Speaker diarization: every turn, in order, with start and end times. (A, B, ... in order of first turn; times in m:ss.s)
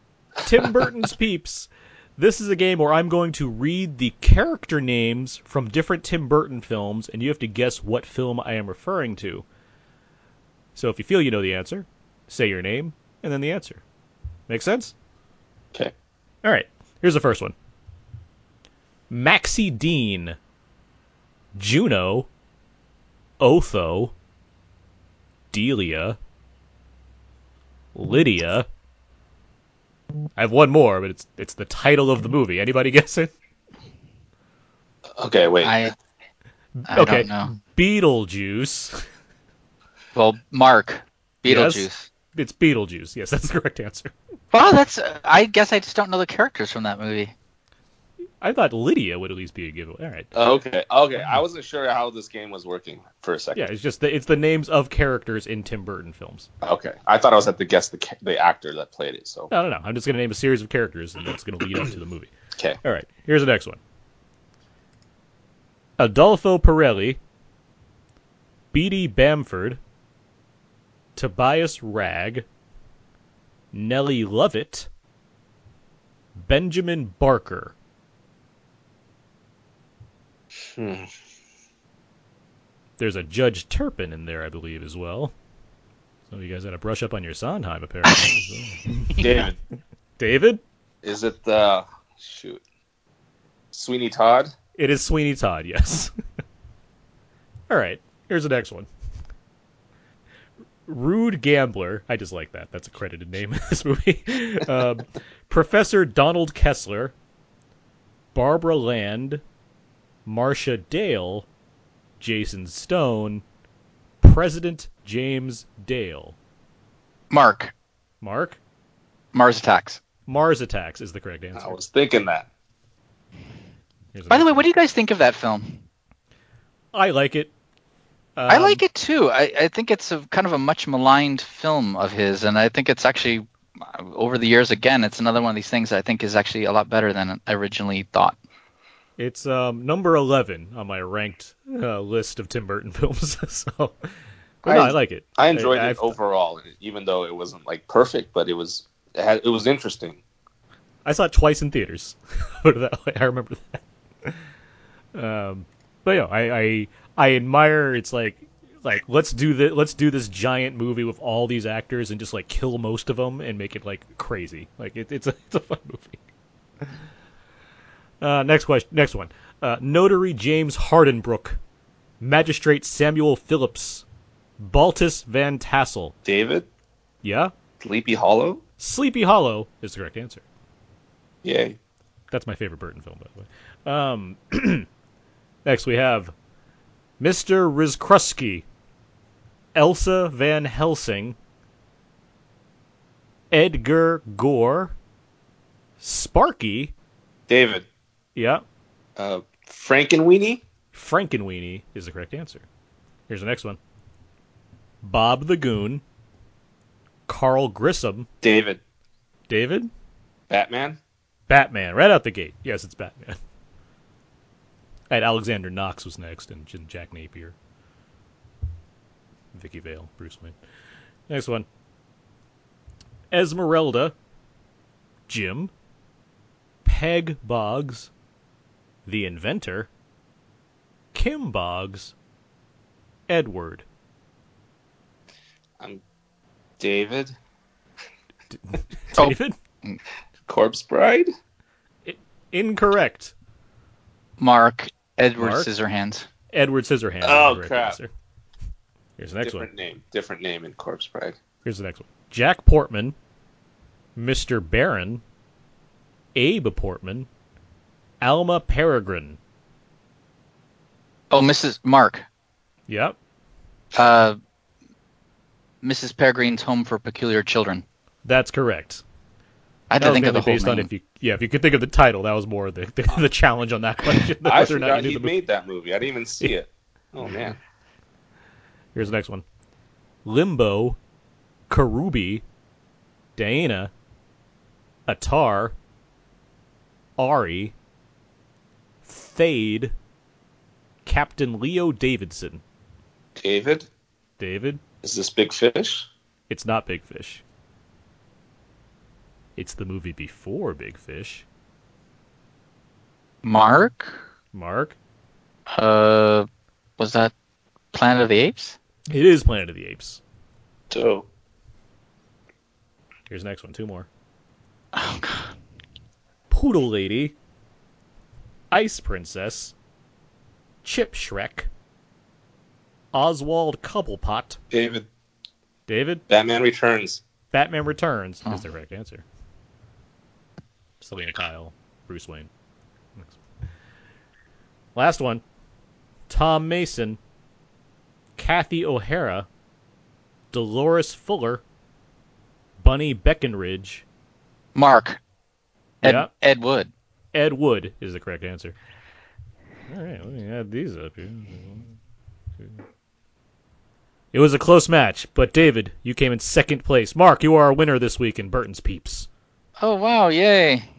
0:00.4-0:09.4 A
0:10.8-0:13.8 A
0:14.5-0:14.9 A
0:16.4-0:17.6 A
0:19.1-0:20.4 A
0:21.6-0:22.3 A
0:23.4-0:24.1 A
0:25.5-0:26.2 A
0:28.0-0:28.7 A
0:30.4-0:33.3 A
0:35.2-0:35.9 B
0:35.6-0:36.0 C
0:36.8-0:39.1 A
0:36.9-0:37.5 C
0:40.1-0:42.1 C
0:41.5-0:44.1 A
0:44.5-0:47.3 C
0:48.4-0:50.3 A
0:50.4-0:53.7 B
0:53.6-0:56.5 A
0:56.6-0:59.5 B
0:59.5-1:02.3 A
1:02.8-1:03.8 A
1:06.0-1:07.2 A
1:08.7-1:09.8 A
1:11.2-1:12.4 A
1:13.7-1:14.9 A
1:16.4-1:17.7 A
1:20.8-1:21.1 B
1:23.0-1:25.3 A
1:26.3-1:29.1 A
1:29.2-1:29.6 B
1:30.2-1:30.6 A
1:31.0-1:32.6 B
1:33.7-1:34.5 B
1:34.8-1:36.1 A
1:37.7-1:38.9 A
1:40.9-1:47.1 A
1:48.3-1:49.4 A
1:50.3-1:51.5 A
1:52.2-1:53.4 A
1:54.2-1:56.4 A
1:57.3-1:57.7 C
1:58.2-1:58.6 A
1:59.3-2:00.0 C
2:00.3-2:01.8 A
2:01.6-2:02.5 B
2:04.1-2:04.7 A
2:04.3-2:05.8 C
2:06.9-2:07.5 A
2:08.4-2:08.8 A
2:08.5-2:18.4 C
2:19.2-2:24.0 A
2:24.6-2:25.0 C
2:24.6-2:26.2 A
2:25.4-2:30.2 B
2:31.0-2:34.4 A
2:35.2-2:46.2 A
2:48.2-2:51.6 A
2:52.2-2:54.0 A
2:54.6-2:56.1 A
2:56.3-2:56.7 B
2:57.2-2:57.5 A
2:57.8-2:58.6 B
2:58.8-3:00.4 A
3:01.4-3:01.8 B
3:02.3-3:04.9 A
3:05.6-3:06.3 A
3:07.2-3:08.6 A
3:09.8-3:11.4 A
3:13.5-3:15.0 A
3:16.0-3:16.9 A
3:17.5-3:17.9 B
3:18.4-3:18.6 A
3:19.2-3:20.6 B
3:20.9-3:22.6 A
3:23.3-3:23.8 A
3:25.0-3:26.0 A
3:27.3-3:28.3 A
3:28.4-3:28.8 B
3:29.5-3:29.9 A
3:30.5-3:31.0 B
3:31.5-3:33.4 A
3:35.1-3:37.6 A
3:39.5-3:40.6 A
3:41.3-3:41.7 A
3:43.3-3:44.2 A
3:45.3-3:45.7 A
3:46.8-3:48.1 A
3:49.1-3:49.9 A
3:51.1-3:52.1 A
3:53.3-3:53.8 A
3:56.8-3:57.3 B
3:58.7-3:59.6 A
3:59.2-4:00.0 C
4:00.5-4:01.3 B
4:02.1-4:03.3 A
4:04.4-4:06.3 C
4:05.4-4:05.7 A
4:06.5-4:08.1 A
4:07.2-4:08.0 B
4:09.2-4:09.7 A
4:09.4-4:11.4 B
4:11.6-4:13.2 A
4:14.2-4:15.2 A
4:16.4-4:17.3 A
4:18.2-4:19.4 A
4:21.3-4:22.3 C
4:22.9-4:23.2 A
4:23.9-4:24.4 C
4:25.8-4:27.8 C
4:28.2-4:29.0 A
4:29.9-4:30.9 C
4:30.0-4:35.4 A
4:34.4-4:37.6 B
4:39.0-4:39.4 A
4:40.2-4:41.0 A
4:41.7-4:42.4 A
4:43.4-4:43.9 A
4:45.1-4:45.8 A
4:47.2-4:47.7 A
4:49.0-4:50.0 A
4:51.1-4:52.6 A
4:53.4-4:53.9 B
4:54.4-4:54.8 A
4:55.0-4:56.1 B
4:56.5-4:57.4 A
4:59.6-5:01.4 A
5:03.4-5:04.2 C
5:04.5-5:05.0 A
5:05.7-5:06.5 C
5:07.0-5:07.3 C
5:07.9-5:08.8 C
5:09.1-5:10.2 A
5:10.9-5:11.3 B
5:13.3-5:14.1 A
5:14.9-5:15.5 C
5:16.5-5:17.4 A
5:18.7-5:19.7 A
5:20.8-5:21.7 A
5:23.1-5:24.6 A
5:24.7-5:25.1 B
5:25.9-5:26.2 A
5:26.3-5:27.2 B
5:27.5-5:29.2 A
5:31.0-5:32.5 A
5:35.0-5:35.4 A
5:36.3-5:37.2 A
5:38.4-5:39.5 A
5:40.5-5:41.6 A
5:42.8-5:44.0 A
5:44.8-5:45.2 C
5:46.0-5:46.9 C
5:46.0-5:46.3 A
5:47.3-5:48.8 A
5:49.9-5:52.0 A
5:54.3-5:59.3 A
5:59.8-6:00.9 C